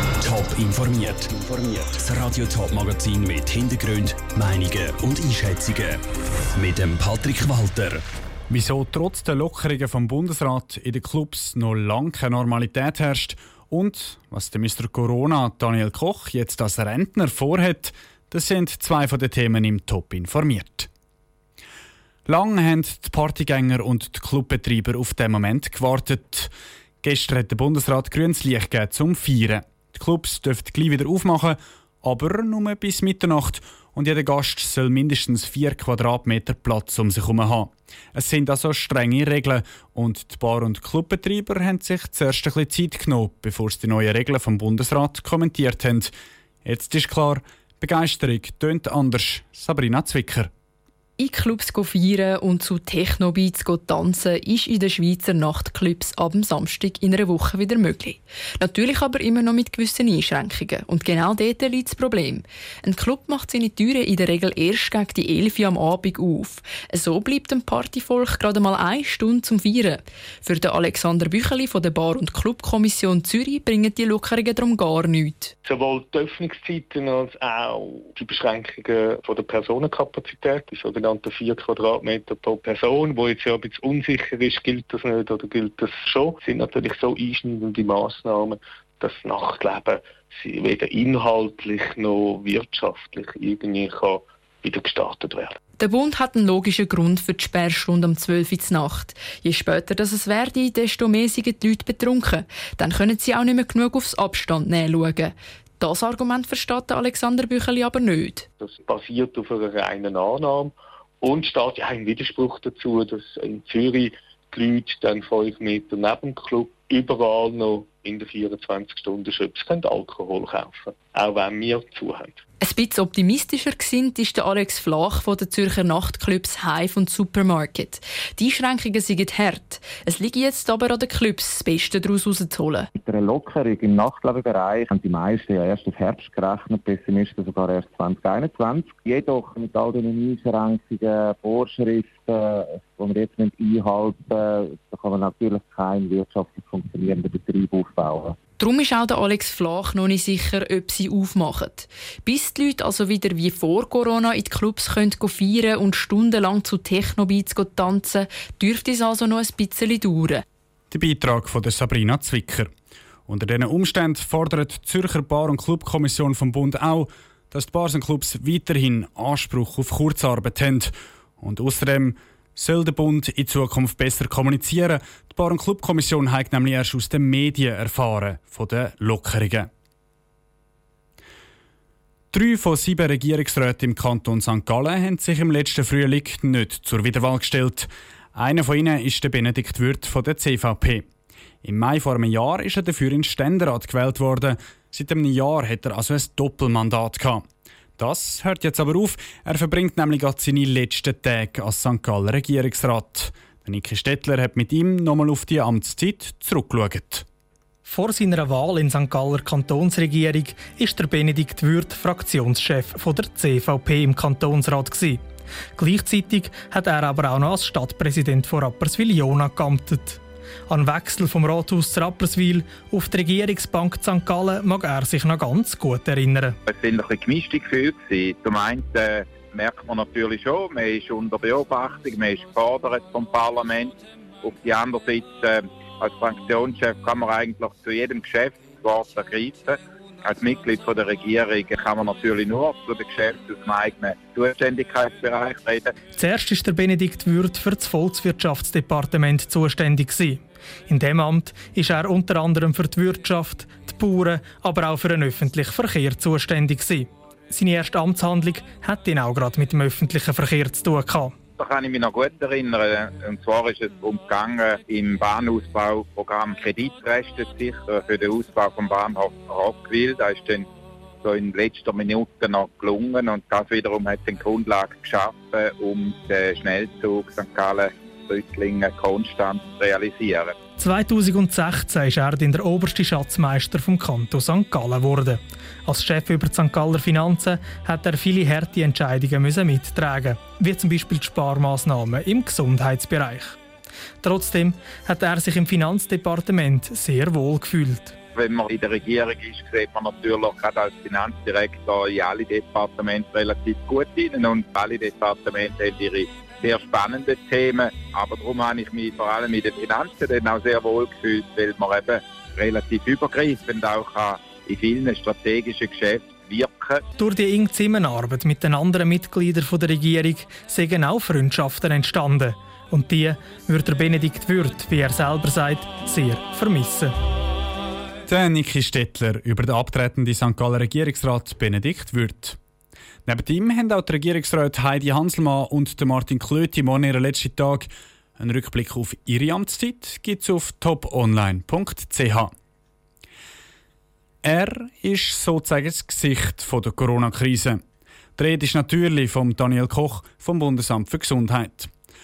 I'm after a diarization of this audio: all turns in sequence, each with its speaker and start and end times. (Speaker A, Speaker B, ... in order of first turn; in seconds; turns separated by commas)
Speaker A: 0.2-6.0, Speaker A: 6.5-8.0, Speaker B: 8.5-20.9, Speaker B: 22.3-26.5, Speaker B: 27.0-46.1, Speaker B: 46.6-50.5, Speaker C: 51.2-75.5, Speaker D: 75.7-95.6, Speaker C: 95.8-108.5, Speaker D: 108.6-122.3, Speaker C: 122.6-132.9, Speaker E: 133.0-148.4, Speaker C: 148.6-160.4, Speaker B: 160.9-162.7, Speaker B: 163.3-179.7, Speaker B: 182.3-191.0, Speaker B: 191.6-197.4, Speaker B: 198.0-207.2, Speaker F: 207.8-215.2, Speaker F: 215.8-226.6, Speaker G: 226.7-245.9, Speaker F: 246.2-261.3, Speaker G: 261.6-270.7, Speaker G: 271.2-280.6, Speaker F: 280.8-293.6, Speaker F: 294.2-298.2, Speaker G: 298.4-317.0, Speaker F: 317.2-327.1, Speaker B: 328.3-332.6, Speaker B: 333.3-342.5, Speaker B: 344.4-347.8, Speaker B: 348.4-351.9